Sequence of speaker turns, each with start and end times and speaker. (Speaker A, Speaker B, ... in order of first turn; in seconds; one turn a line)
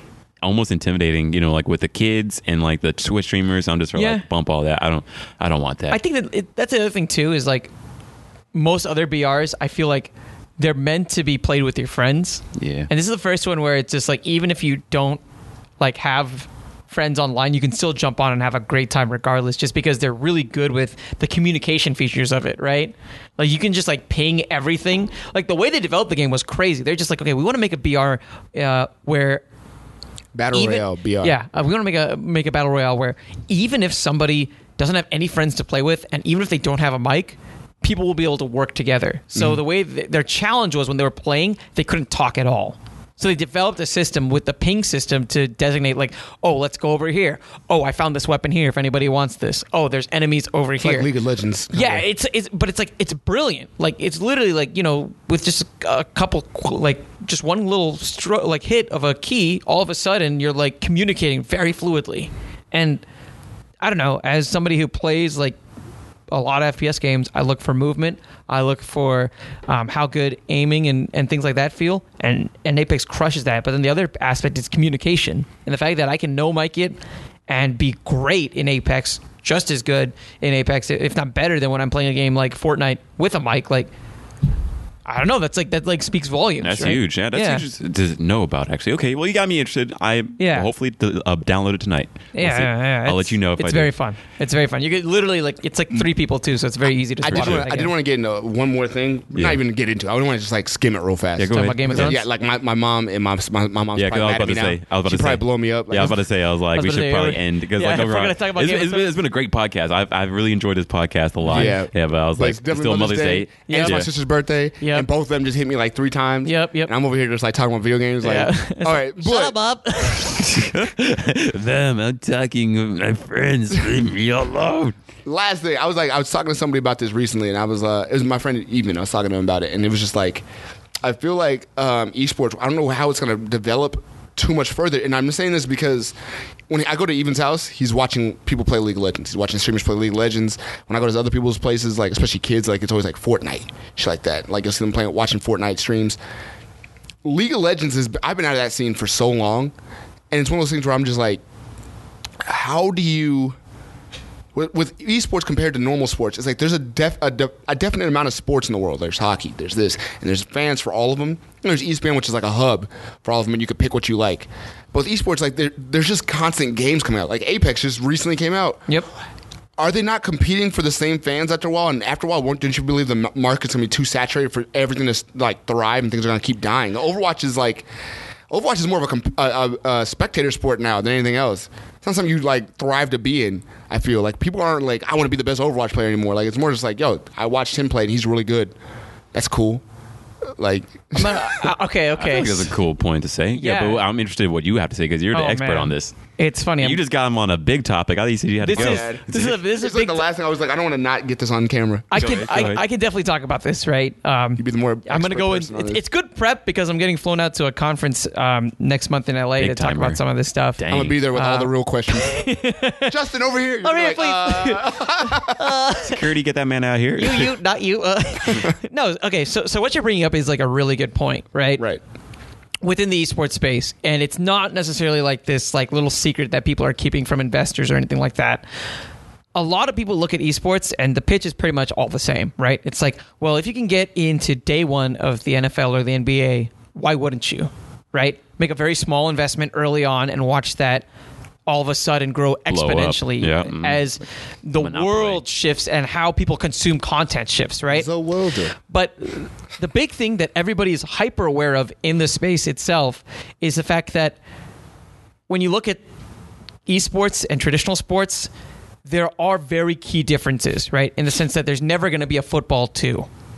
Speaker A: 0.4-6.0
Speaker B: 3.9-4.2
Speaker B: 5.9-7.7
Speaker B: 8.5-15.2
Speaker A: 12.6-12.9
Speaker B: 15.8-29.4
Speaker C: 30.3-31.4
Speaker B: 30.5-51.1
Speaker C: 39.3-39.6
Speaker C: 50.8-52.0
Speaker B: 51.7-63.0
Speaker B: 63.8-65.6
Speaker B: 66.3-83.9
Speaker B: 85.0-87.6
Speaker A: 86.6-93.9
Speaker B: 90.4-90.7
Speaker B: 92.3-97.9
Speaker C: 97.2-106.2
Speaker A: 97.3-97.7
Speaker A: 99.3-99.6
Speaker A: 101.4-102.2
Speaker B: 101.5-102.2
Speaker A: 103.9-114.1
Speaker B: 106.7-109.1
Speaker C: 111.5-119.6
Speaker B: 113.7-114.1
Speaker B: 114.8-115.1
Speaker B: 116.4-116.9
Speaker B: 118.2-120.5
Speaker A: 120.1-124.9
Speaker C: 125.2-130.4
Speaker C: 131.0-136.1
Speaker C: 136.7-146.2
Speaker C: 147.2-149.7
Speaker C: 150.3-151.4
Speaker C: 152.4-153.6
Speaker C: 154.5-168.8
Speaker C: 169.8-177.9
Speaker C: 178.5-188.7
Speaker C: 189.3-189.8
Speaker C: 190.6-191.7
Speaker B: 191.2-192.7
Speaker A: 192.2-196.1
Speaker B: 193.5-194.0
Speaker B: 195.3-197.0
Speaker A: 196.8-199.6
Speaker B: 198.6-200.2
Speaker C: 198.7-202.6
Speaker B: 202.1-210.8
Speaker A: 202.2-202.8
Speaker C: 204.6-206.0
Speaker A: 209.6-210.2
Speaker A: 210.8-211.2
Speaker C: 210.9-212.4
Speaker B: 211.3-213.1
Speaker C: 213.0-215.7
Speaker B: 213.8-216.2
Speaker A: 216.0-217.5
Speaker B: 217.2-221.8
Speaker B: 222.8-228.6
Speaker B: 229.5-241.1
Speaker B: 241.7-248.1
Speaker A: 242.7-244.0
Speaker A: 244.8-245.4
Speaker C: 247.9-248.7
Speaker B: 248.9-254.4
Speaker B: 255.5-256.0
Speaker B: 256.9-258.5
Speaker B: 259.0-263.3